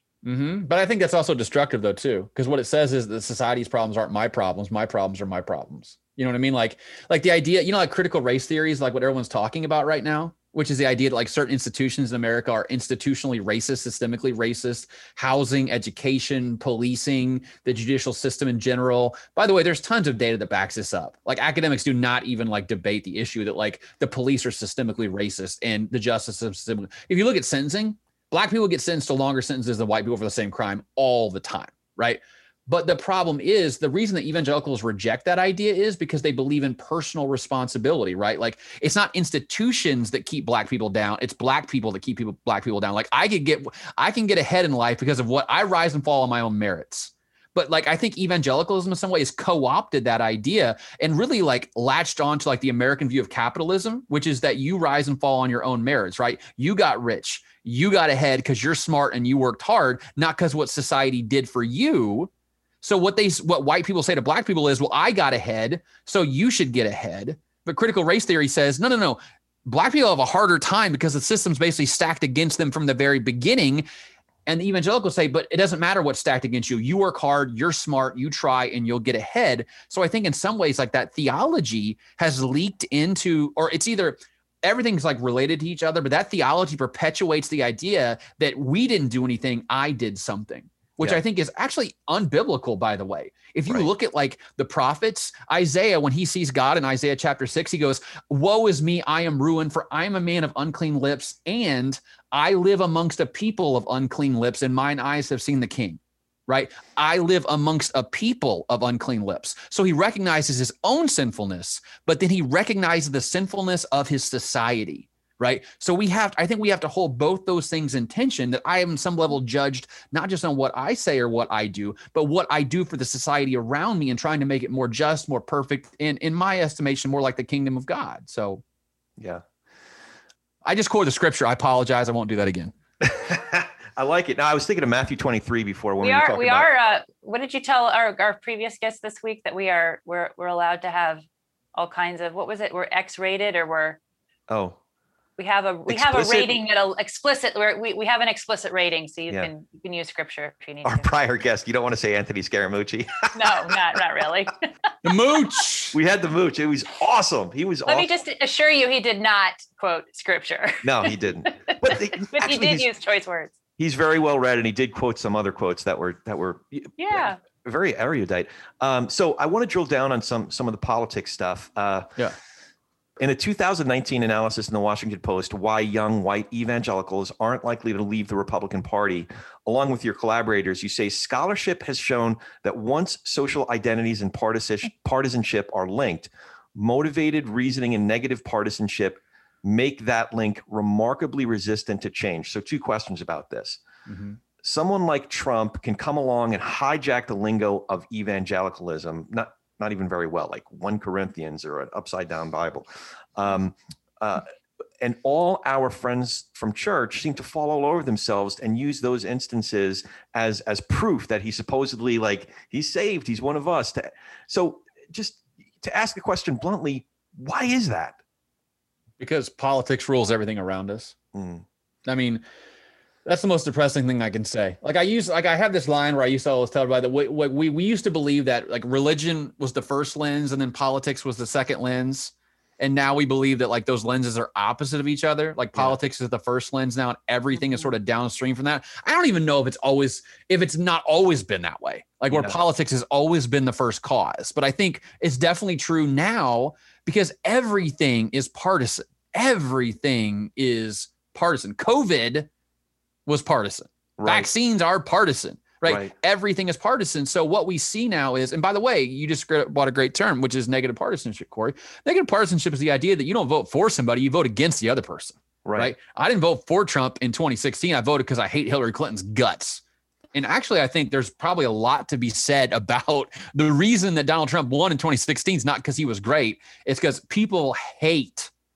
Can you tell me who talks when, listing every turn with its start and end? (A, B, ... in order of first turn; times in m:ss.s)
0:00.2-1:02.3 A
1:02.8-1:13.8 A
1:14.4-2:08.6 A
2:10.6-2:12.7 A
2:13.0-2:16.7 B
2:16.0-2:21.2 C
2:21.7-2:24.0 C
2:24.5-2:24.8 B
2:25.4-2:31.1 C
2:25.9-2:26.6 B
2:30.8-2:33.7 B
2:33.3-2:34.7 C
2:35.0-2:36.0 A
2:35.9-2:38.1 B
2:37.9-2:43.5 C
2:40.8-2:42.8 B
2:43.8-2:52.1 B
2:47.0-2:47.4 C
2:53.2-3:13.8 B
3:14.1-3:14.4 A
3:14.6-3:24.5 B
3:25.0-3:38.2 B
3:39.2-3:41.2 A
3:41.3-3:41.6 B
3:42.0-3:42.4 A
3:43.2-4:12.5 A
4:13.2-4:29.8 A
4:14.2-4:14.5 B
4:15.8-4:16.1 B
4:25.6-4:25.9 B
4:30.3-4:38.5 A